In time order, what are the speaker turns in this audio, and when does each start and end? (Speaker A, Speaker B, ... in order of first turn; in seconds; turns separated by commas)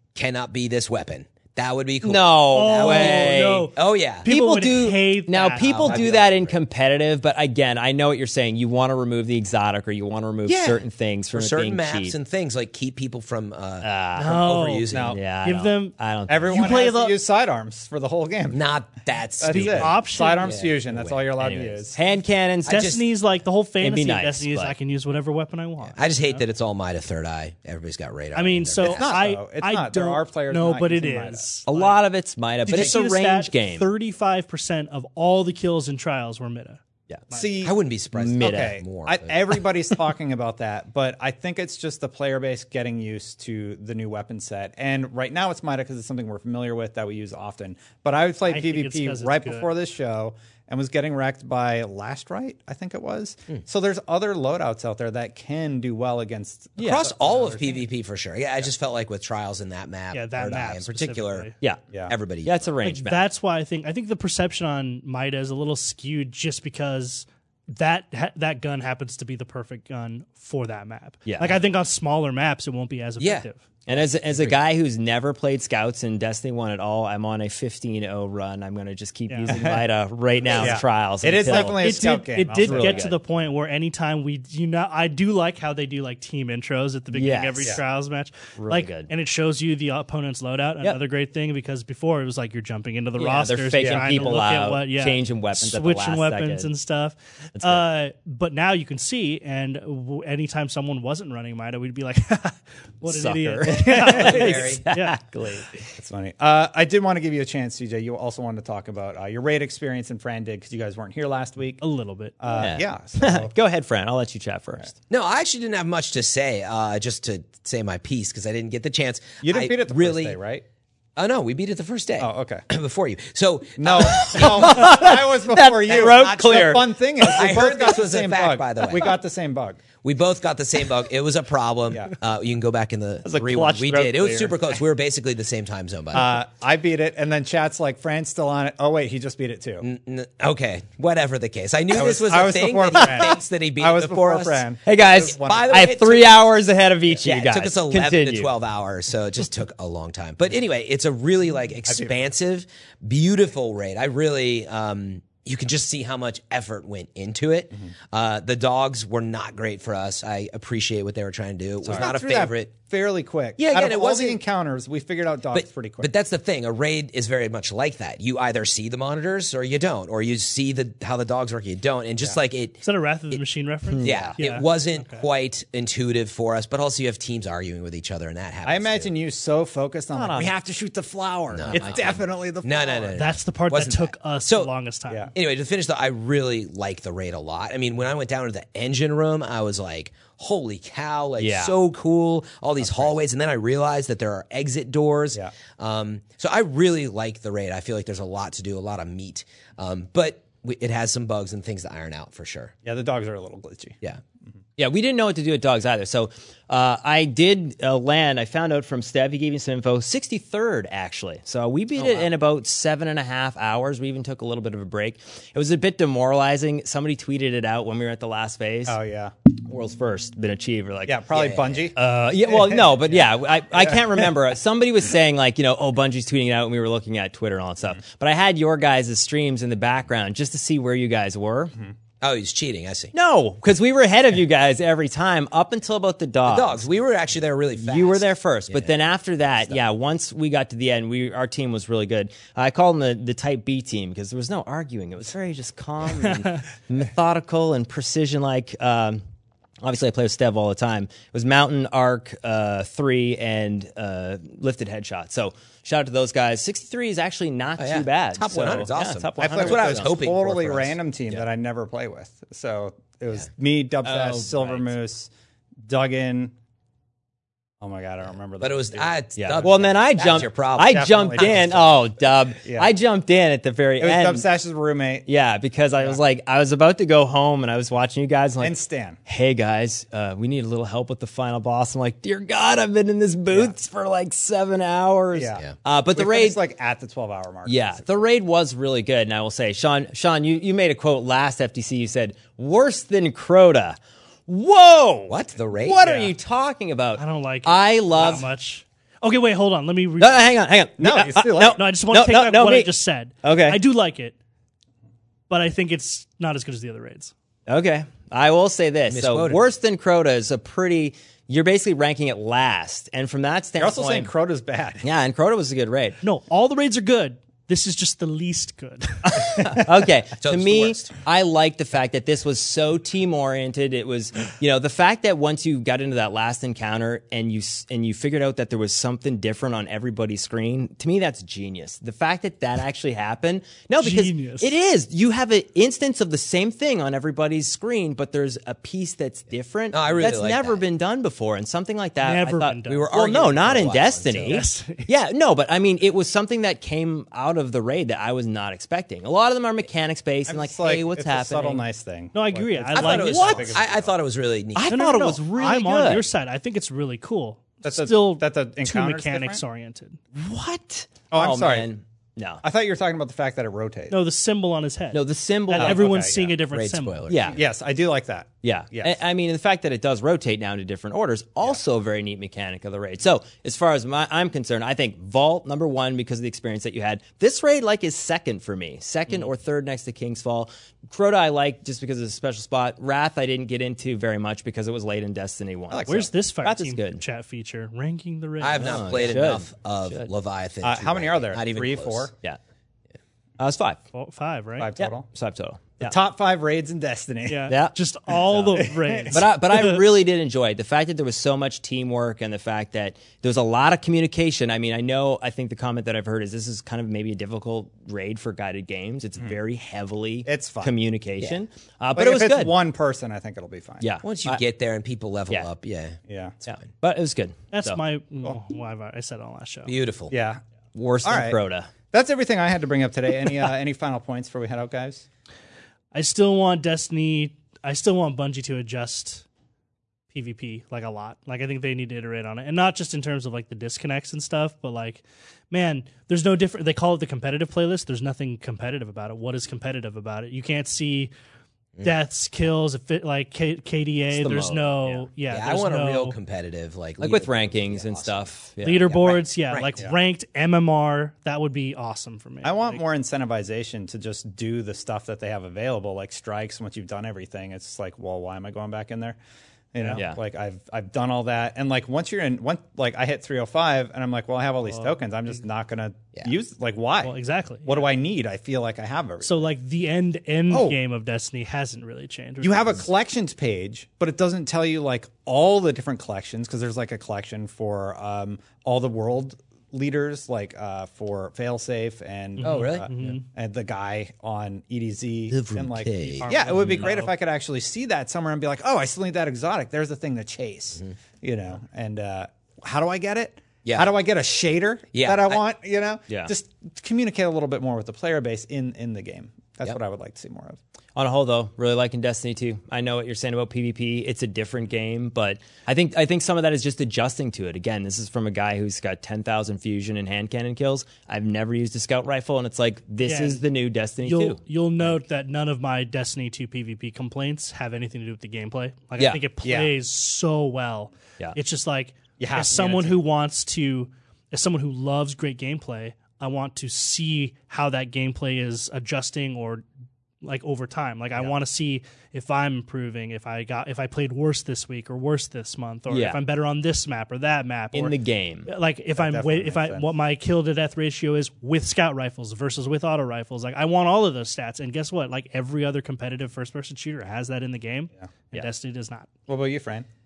Speaker A: 0.1-4.3, Speaker B: 2.0-3.7, Speaker C: 2.5-6.0, Speaker B: 4.2-12.2, Speaker A: 5.6-6.6, Speaker A: 10.5-15.2, Speaker B: 13.8-16.9, Speaker C: 14.2-14.9, Speaker D: 14.9-15.2, Speaker C: 15.4-15.9, Speaker D: 16.3-18.6, Speaker C: 16.5-17.2, Speaker A: 18.5-21.2, Speaker D: 19.4-22.0, Speaker C: 19.5-20.6, Speaker B: 21.4-22.9, Speaker A: 22.6-23.0, Speaker C: 22.7-26.4, Speaker B: 23.8-24.8, Speaker A: 25.9-29.1, Speaker C: 28.4-32.0, Speaker D: 28.8-31.5, Speaker B: 31.7-33.9, Speaker C: 32.7-37.5, Speaker A: 32.7-32.9, Speaker D: 37.3-37.8, Speaker A: 37.6-39.5, Speaker B: 38.1-38.8, Speaker D: 38.4-57.9, Speaker C: 48.5-49.7, Speaker A: 56.8-61.5, Speaker B: 56.8-57.0, Speaker C: 60.1-61.5, Speaker A: 62.1-62.7, Speaker B: 62.4-63.2, Speaker C: 62.8-73.6, Speaker B: 71.3-71.6, Speaker A: 73.2-73.5, Speaker B: 73.9-83.2, Speaker C: 79.3-79.5, Speaker D: 79.5-79.8, Speaker D: 80.5-83.1, Speaker C: 81.5-105.2, Speaker B: 87.1-87.8, Speaker B: 88.6-89.1, Speaker B: 93.2-96.7, Speaker D: 93.8-94.3, Speaker B: 97.6-97.8, Speaker B: 103.0-106.0, Speaker D: 103.7-104.1, Speaker A: 104.0-104.8, Speaker D: 106.0-111.8, Speaker C: 111.8-112.7, Speaker D: 112.4-113.5, Speaker B: 112.5-114.9, Speaker A: 115.1-120.4, Speaker D: 119.4-120.6, Speaker A: 121.2-125.1, Speaker D: 122.2-122.7, Speaker D: 123.8-129.8, Speaker B: 124.0-127.6, Speaker A: 125.9-126.6, Speaker A: 127.2-129.2, Speaker A: 130.0-136.4, Speaker D: 133.3-134.7, Speaker D: 136.1-139.9, Speaker A: 139.8-146.4, Speaker D: 141.9-145.9, Speaker B: 144.8-148.5, Speaker A: 147.2-162.7, Speaker D: 161.8-166.1, Speaker A: 163.6-164.4, Speaker A: 165.5-173.4, Speaker C: 172.8-175.3, Speaker B: 173.9-174.3, Speaker A: 174.0-179.1, Speaker D: 178.7-183.2, Speaker B: 180.2-180.5, Speaker A: 181.5-184.7, Speaker C: 183.2-185.3, Speaker A: 185.3-202.7, Speaker B: 191.4-191.7, Speaker D: 192.8-193.1, Speaker D: 202.8-204.0, Speaker B: 204.8-219.0, Speaker D: 212.0-212.3, Speaker D: 218.9-219.3, Speaker B: 219.7-231.7, Speaker D: 221.1-224.3, Speaker A: 221.3-221.9, Speaker A: 232.2-233.1, Speaker B: 233.1-236.8, Speaker A: 236.5-238.9, Speaker B: 237.8-249.2, Speaker B: 249.8-260.2, Speaker A: 257.8-261.0, Speaker D: 259.4-265.3, Speaker B: 264.0-264.9, Speaker D: 265.9-266.5, Speaker D: 267.8-272.0, Speaker A: 268.6-271.7, Speaker B: 269.4-274.5, Speaker D: 272.6-272.9, Speaker D: 274.0-275.3, Speaker B: 275.3-286.6, Speaker D: 278.6-279.2, Speaker D: 285.3-285.6, Speaker D: 286.1-288.1, Speaker B: 287.7-298.5, Speaker A: 295.3-296.1, Speaker D: 296.0-296.3, Speaker C: 297.2-300.5, Speaker B: 300.2-302.9, Speaker D: 301.0-301.8, Speaker C: 301.6-304.4, Speaker B: 303.4-303.8, Speaker C: 305.5-307.3, Speaker B: 307.7-314.3, Speaker A: 309.1-309.7, Speaker D: 313.8-315.1, Speaker B: 315.0-316.2, Speaker C: 316.2-319.6, Speaker B: 319.3-351.8, Speaker A: 320.4-321.1, Speaker C: 334.0-334.7, Speaker A: 339.9-340.8, Speaker C: 342.2-343.2, Speaker A: 342.9-344.6, Speaker C: 344.3-345.1, Speaker D: 350.5-354.1, Speaker C: 352.3-353.8, Speaker A: 352.9-354.9, Speaker B: 354.8-356.3, Speaker C: 354.9-360.2, Speaker D: 357.8-359.6, Speaker B: 360.3-362.6, Speaker D: 361.3-361.9, Speaker D: 362.6-364.2, Speaker C: 364.1-367.3, Speaker B: 365.1-366.3, Speaker D: 365.7-366.6, Speaker A: 366.7-367.6, Speaker B: 367.3-367.6, Speaker D: 367.5-369.2, Speaker B: 368.6-387.2, Speaker D: 385.9-386.3, Speaker C: 386.1-389.0, Speaker A: 388.6-392.3, Speaker B: 388.8-390.3, Speaker D: 390.8-392.3, Speaker B: 393.6-394.0, Speaker C: 394.1-394.9, Speaker D: 394.8-395.3, Speaker B: 395.0-396.1, Speaker D: 396.0-397.7, Speaker C: 397.5-400.0, Speaker B: 397.7-397.9, Speaker B: 398.5-398.8, Speaker D: 398.8-399.4, Speaker B: 399.3-412.8, Speaker D: 410.5-410.9, Speaker D: 412.2-414.1, Speaker B: 414.0-414.6, Speaker A: 414.2-416.2, Speaker D: 416.3-416.6, Speaker B: 416.7-418.0, Speaker C: 417.7-419.9, Speaker A: 419.9-420.3, Speaker D: 420.3-420.6, Speaker B: 420.9-421.9, Speaker D: 421.2-421.6, Speaker D: 422.1-425.2, Speaker C: 426.1-429.4, Speaker C: 430.3-441.3, Speaker C: 442.0-446.4, Speaker B: 444.3-445.3, Speaker A: 445.5-448.5, Speaker B: 447.2-449.4, Speaker C: 448.8-453.0, Speaker A: 449.7-449.9, Speaker D: 452.6-459.4, Speaker D: 459.9-467.3, Speaker C: 460.0-460.2, Speaker B: 460.1-460.4, Speaker C: 464.9-465.2, Speaker C: 467.2-468.1, Speaker D: 467.9-469.7, Speaker C: 469.4-473.1, Speaker D: 470.7-471.0, Speaker D: 472.6-500.8, Speaker C: 482.6-483.4, Speaker A: 482.6-483.1, Speaker A: 485.5-487.1, Speaker C: 486.4-487.3, Speaker A: 493.8-494.1, Speaker A: 495.1-495.6, Speaker B: 501.2-515.2, Speaker C: 513.2-513.6, Speaker C: 514.2-529.8, Speaker D: 519.6-519.9, Speaker D: 522.4-523.2, Speaker C: 530.4-538.1, Speaker B: 536.1-536.4, Speaker B: 537.9-538.7, Speaker C: 538.7-549.3, Speaker D: 539.2-540.0, Speaker D: 549.5-550.1